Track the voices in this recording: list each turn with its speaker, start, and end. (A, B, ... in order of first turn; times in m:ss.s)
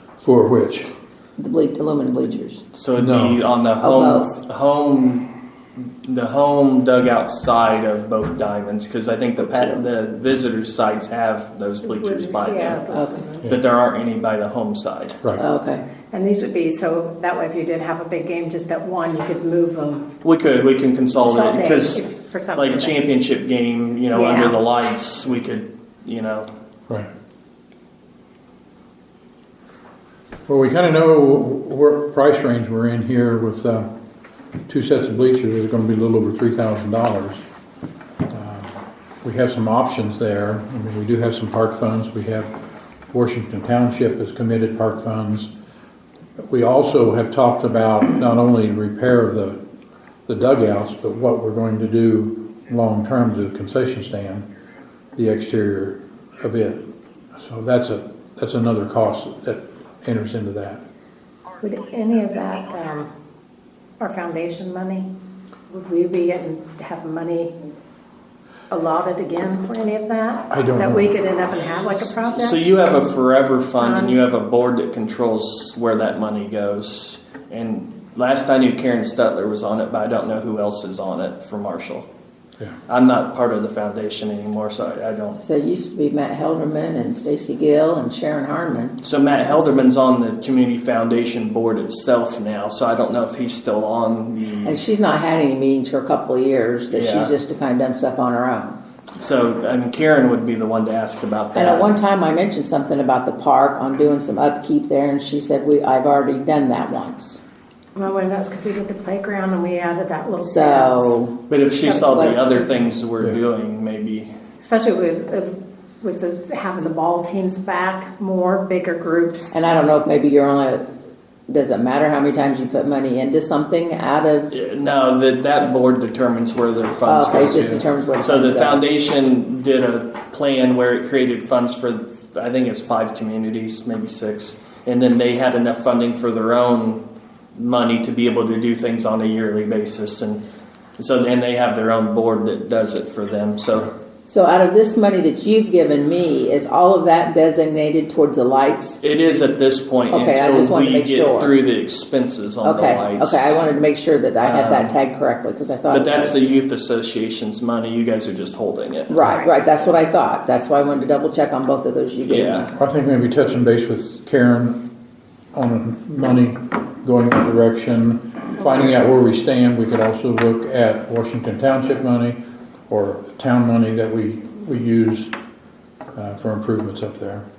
0:00.2-0:00.9 A
0:01.4-0:02.6 B
0:02.7-0:05.3 C
0:03.0-0:03.4 A
0:03.8-0:04.3 B
0:06.0-0:12.8 C
0:11.8-0:13.5 D
0:12.9-0:13.2 B
0:13.4-0:15.2 C
0:15.4-0:15.8 B
0:16.1-0:20.1 D
0:20.2-0:26.5 C
0:21.1-0:23.0 D
0:24.1-0:24.6 D
0:30.5-0:33.9 A
0:34.7-0:37.4 A
0:38.3-0:42.6 A
0:43.1-0:45.5 A
0:46.5-0:49.6 A
0:50.3-0:54.5 A
0:55.2-1:00.8 A
1:01.6-1:03.1 D
1:04.0-1:05.1 D
1:05.7-1:07.6 D
1:08.7-1:12.6 D
1:10.5-1:11.1 A
1:11.5-1:22.1 C
1:13.8-1:14.2 D
1:22.9-1:25.4 C
1:25.4-1:29.0 B
1:29.0-1:34.8 C
1:34.6-1:38.8 B
1:36.9-1:37.3 C
1:39.2-1:41.9 C
1:41.5-1:47.4 B
1:48.0-1:51.2 D
1:50.4-1:51.4 B
1:51.5-1:54.3 C
1:51.7-1:52.9 D
1:54.6-1:59.6 D
1:59.5-2:00.8 B
2:01.5-2:04.5 B
2:04.5-2:17.0 C
2:07.1-2:08.8 B
2:17.5-2:20.4 C
2:21.0-2:23.9 C
2:24.2-2:29.0 B
2:29.0-2:33.6 C
2:30.1-2:31.5 B
2:32.6-2:36.4 B
2:34.4-2:34.9 C
2:35.9-2:39.2 C
2:39.1-2:42.6 B
2:39.2-2:39.5 D
2:42.2-2:42.8 C
2:42.8-2:44.8 A
2:45.5-2:55.4 A
2:56.1-2:57.4 A